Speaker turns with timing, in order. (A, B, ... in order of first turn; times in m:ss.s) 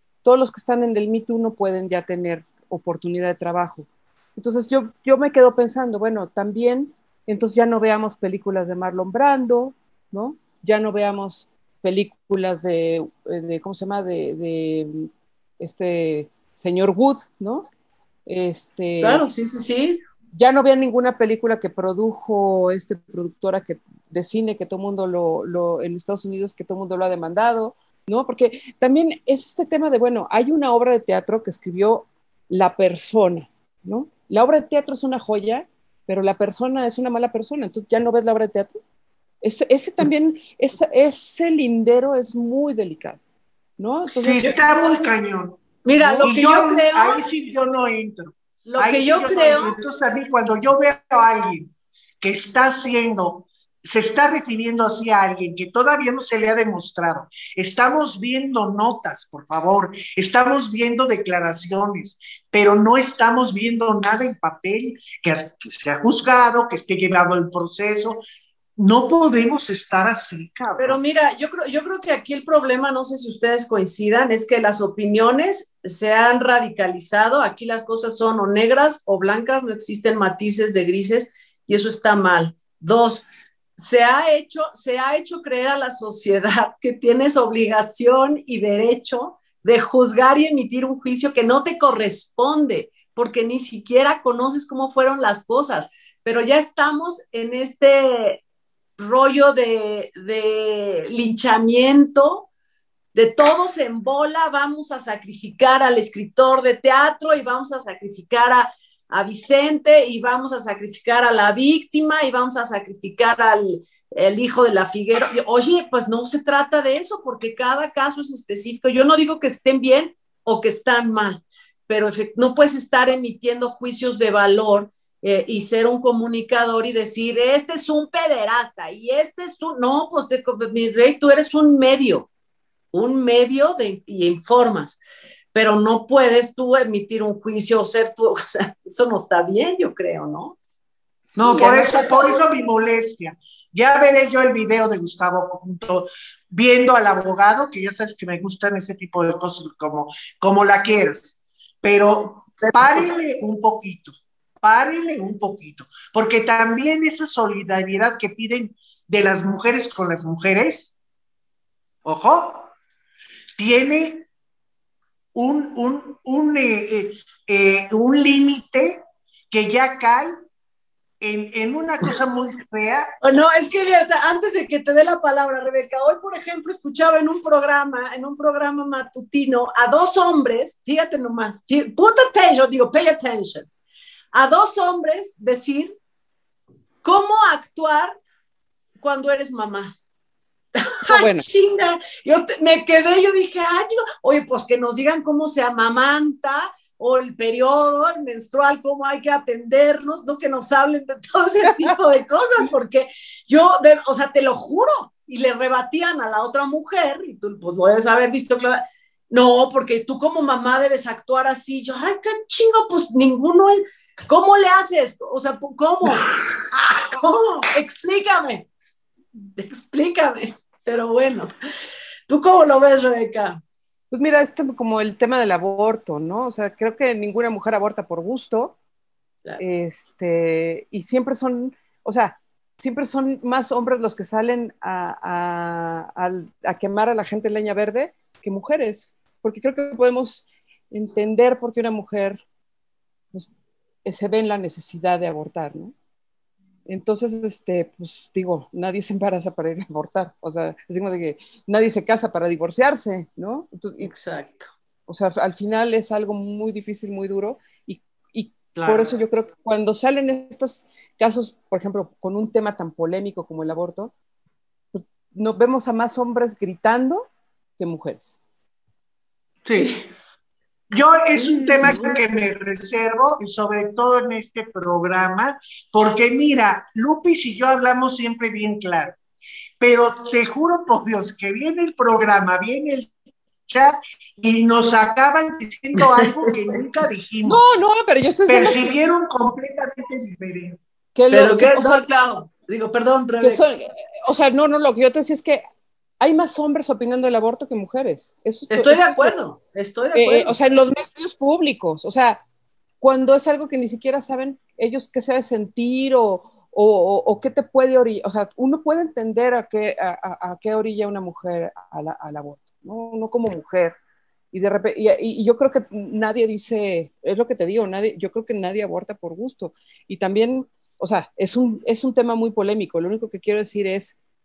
0:00.2-0:17.7 A
0:18.3-0:19.2 A
0:19.0-0:20.0 B
0:20.3-0:38.8 A
0:39.4-0:43.2 A
0:43.8-0:44.7 A
0:44.2-0:45.6 C
0:45.8-0:47.2 B
0:46.0-0:46.3 A
0:46.2-1:08.2 C
0:48.7-0:49.8 B
1:08.8-1:11.0 C
1:10.8-1:23.2 B
1:23.8-1:38.4 B
1:39.0-1:42.5 B
1:43.1-2:12.3 B
2:12.9-2:15.0 B
2:15.5-2:20.6 B
2:21.4-2:22.4 B
2:21.4-2:41.0 C
2:32.6-2:33.1 B
2:42.0-2:42.7 C
2:43.6-2:44.3 C
2:45.4-2:50.3 C
2:51.2-2:53.1 C
2:53.2-3:03.7 B
3:04.3-3:06.0 B
3:07.0-3:08.2 B
3:09.0-3:10.0 B
3:10.8-3:36.3 B
3:11.1-3:11.5 A
3:37.1-3:38.7 B
3:39.6-3:41.5 B
3:42.3-3:43.6 B
3:44.1-3:48.8 A
3:49.6-4:02.4 A
4:04.0-4:05.9 A
4:06.9-4:14.1 A
4:14.0-4:14.7 B
4:15.1-4:24.1 A
4:18.8-4:19.2 C
4:24.9-4:28.4 A
4:29.6-4:30.0 C
4:29.7-4:30.0 B
4:30.9-4:39.2 C
4:31.4-4:32.2 B
4:39.8-4:43.1 C
4:43.7-4:47.7 C
4:46.0-4:46.5 B
4:47.4-4:49.0 A
4:48.5-4:50.8 C
4:51.2-4:52.0 A
4:51.3-4:53.6 B
4:53.4-4:55.6 A
4:56.2-4:59.4 A
4:58.7-5:00.5 B
5:00.1-5:02.4 A
5:03.0-5:14.0 A
5:14.5-5:24.2 A